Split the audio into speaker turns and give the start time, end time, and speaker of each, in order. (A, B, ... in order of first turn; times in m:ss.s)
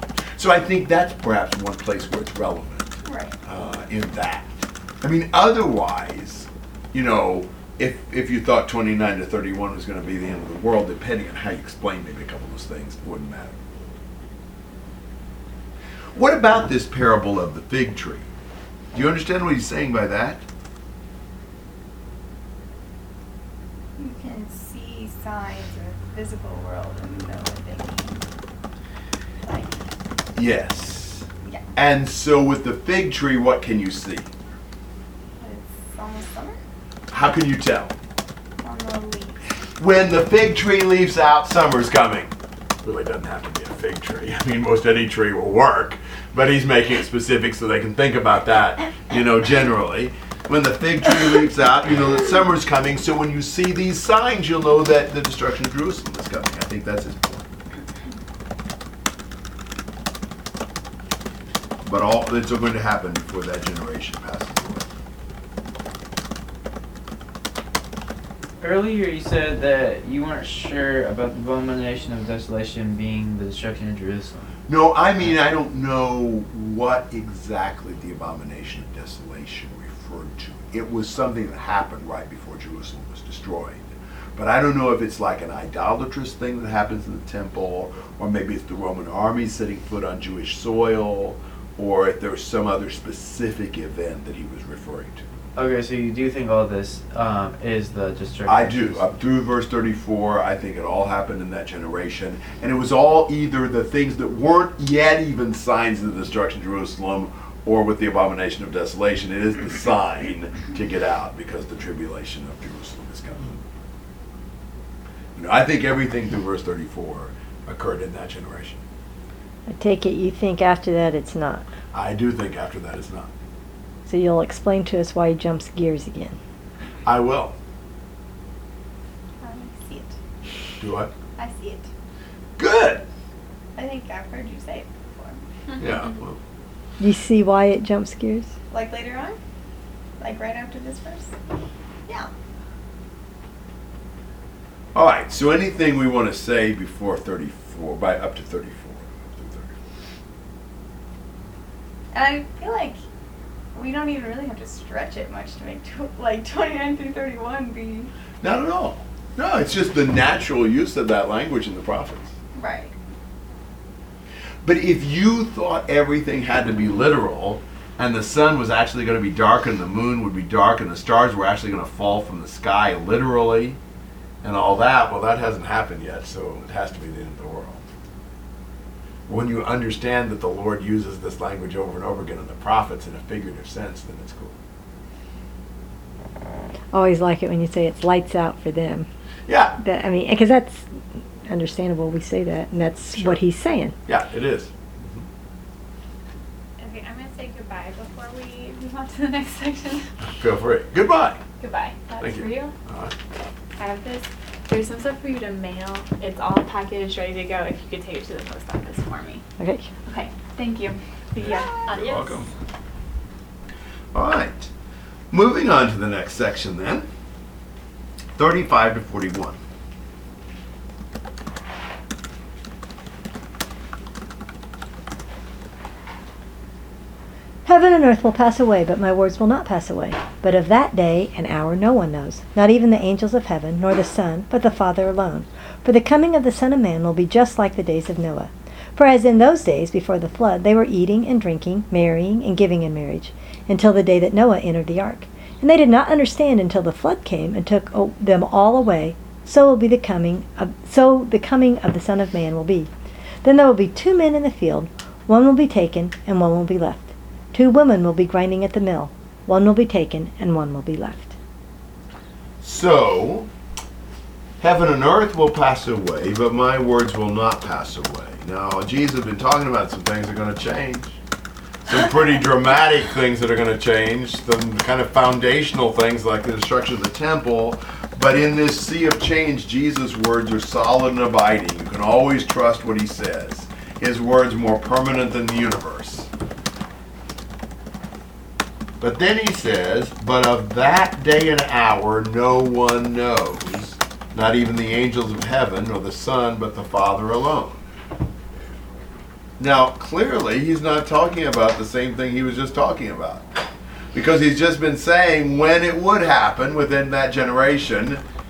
0:00.4-0:13.9 A
0:03.0-0:03.3 B
0:16.2-0:18.3 A
0:18.9-0:20.4 A
0:24.0-0:28.2 B
0:29.4-0:29.8 B
0:30.4-0:34.3 A
0:35.4-0:36.6 B
0:37.1-0:38.0 A
0:38.6-0:39.4 B
0:39.8-0:42.3 A
0:42.8-0:57.5 A
1:01.8-1:04.9 A
1:08.6-1:14.5 C
1:14.7-1:35.2 A
1:35.6-1:39.0 C
1:38.5-1:53.6 A
1:55.4-1:58.8 A
1:59.7-2:01.7 D
2:01.9-2:03.3 A
2:04.1-2:06.4 D
2:07.0-2:07.6 A
2:09.4-2:10.2 B
2:10.8-2:11.1 A
2:11.4-2:11.9 B
2:12.6-2:13.1 A
2:13.8-2:15.4 B
2:15.8-2:16.4 A
2:17.0-2:18.5 D
2:18.7-2:19.4 B
2:20.2-2:21.3 B
2:25.0-2:29.7 A
2:32.1-2:33.0 B
2:33.8-2:38.1 B
2:38.4-2:42.3 A
2:42.6-2:42.9 B
2:44.6-2:53.8 A
2:54.4-2:57.8 A
2:59.3-3:04.6 A
3:06.9-3:09.1 D
3:09.5-3:09.8 A
3:09.8-3:14.0 D
3:13.1-3:13.4 A
3:14.1-3:15.2 A
3:16.8-3:20.0 E
3:20.4-3:21.4 A
3:21.6-3:22.7 E
3:22.2-3:23.1 A
3:23.8-3:29.4 E
3:29.6-3:29.9 D
3:30.1-3:32.4 E
3:31.5-3:32.5 A
3:34.1-3:34.7 A
3:35.3-3:37.1 A
3:38.4-3:39.6 A
3:47.6-4:12.9 D
4:13.4-4:21.4 D
4:22.6-4:23.5 A
4:24.6-4:31.2 A
4:31.9-4:46.3 A
4:49.0-4:57.8 A
4:59.6-5:03.5 A
5:04.1-5:08.2 A